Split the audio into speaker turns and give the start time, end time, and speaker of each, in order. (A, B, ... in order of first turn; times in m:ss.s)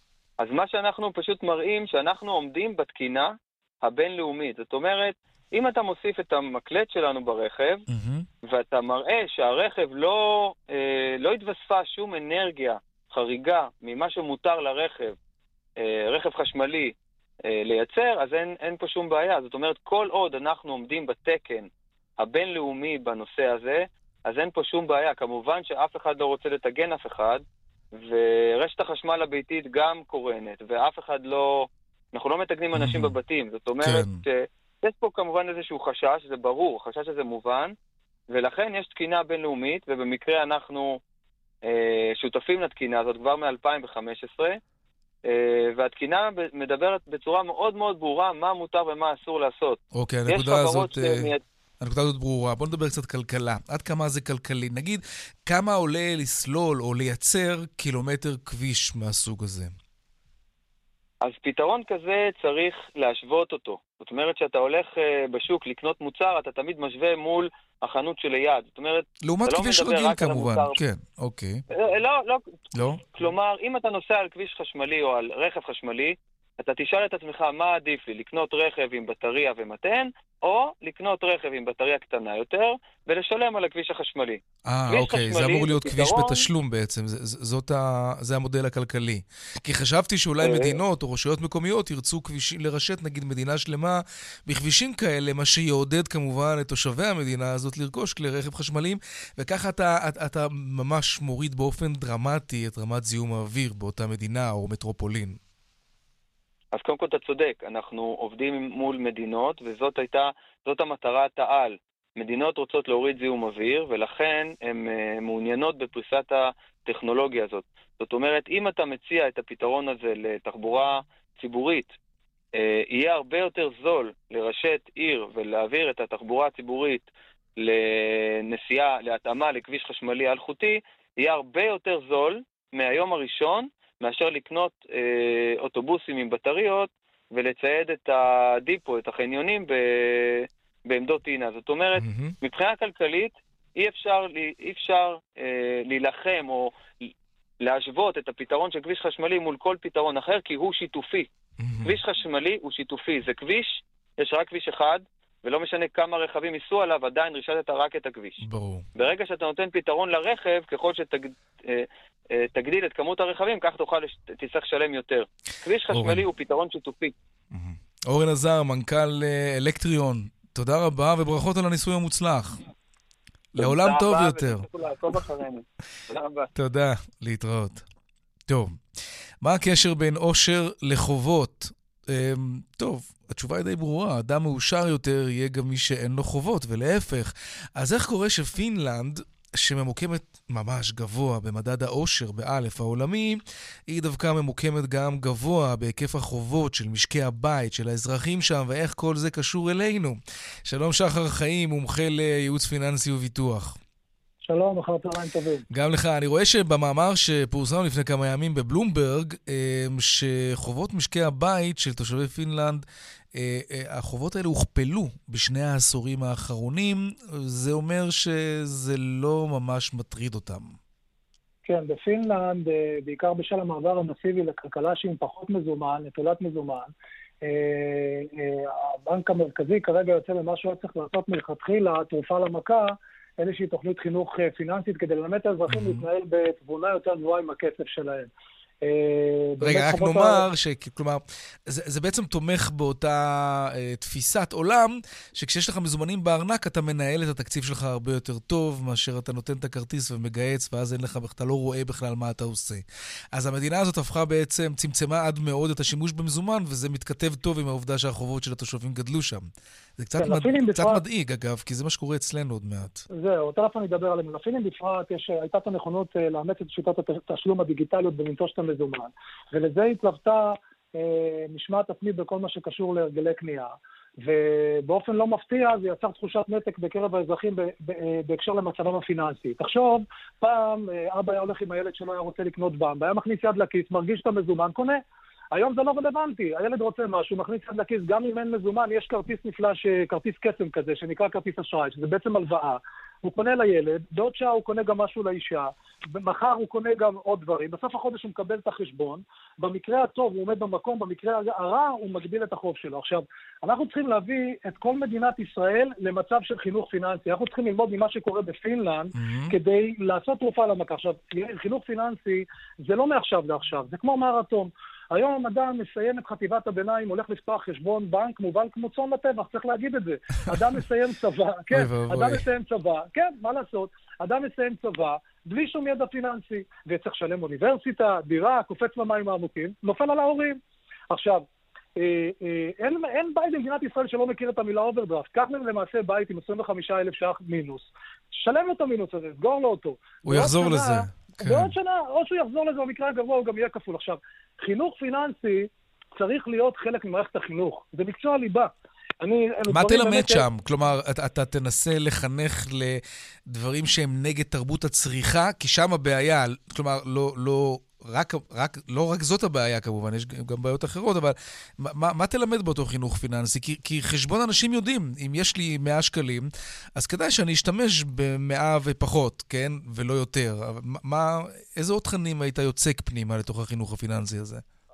0:00.4-0:07.8 A
0:07.9-0:08.3 B
0:08.4-0:15.2 A
0:15.8-0:27.4 A
0:27.9-0:37.7 A
0:32.8-0:33.1 B
0:33.8-0:34.2 B
0:38.3-0:41.0 A
0:41.7-0:44.6 A
0:45.3-0:51.4 A
0:49.9-0:51.3 B
0:51.8-0:59.7 B
1:01.2-1:10.8 A
1:09.2-1:11.6 B
1:11.7-1:12.5 A
1:12.8-1:13.1 B
1:13.2-1:26.4 A
1:24.7-1:45.4 B
1:30.4-1:30.8 A
1:46.7-2:01.9 A
2:02.6-2:31.3 A
2:22.0-2:22.4 B
2:31.6-2:32.0 B
2:31.8-2:38.4 A
2:38.4-2:38.9 B
2:39.0-2:47.1 A
2:45.9-2:46.2 B
2:47.5-2:52.6 B
2:53.5-2:54.7 B
2:53.6-2:56.5 A
2:56.6-2:57.8 B
2:58.5-2:58.8 B
2:59.4-3:23.8 B
3:24.5-3:25.6 C
3:25.7-3:32.8 B
3:33.4-3:40.8 B
3:41.6-3:46.9 C
3:47.4-3:58.3 C
3:55.7-3:56.0 B
3:58.8-4:00.4 C
3:59.6-4:23.0 B
4:20.2-4:21.0 C
4:23.2-4:45.0 C
4:45.5-5:30.6 C
5:09.2-5:09.6 B
5:21.7-5:22.4 B
5:31.1-5:31.4 C
5:32.0-5:50.4 C
5:40.2-5:41.7 B
5:49.7-6:14.6 B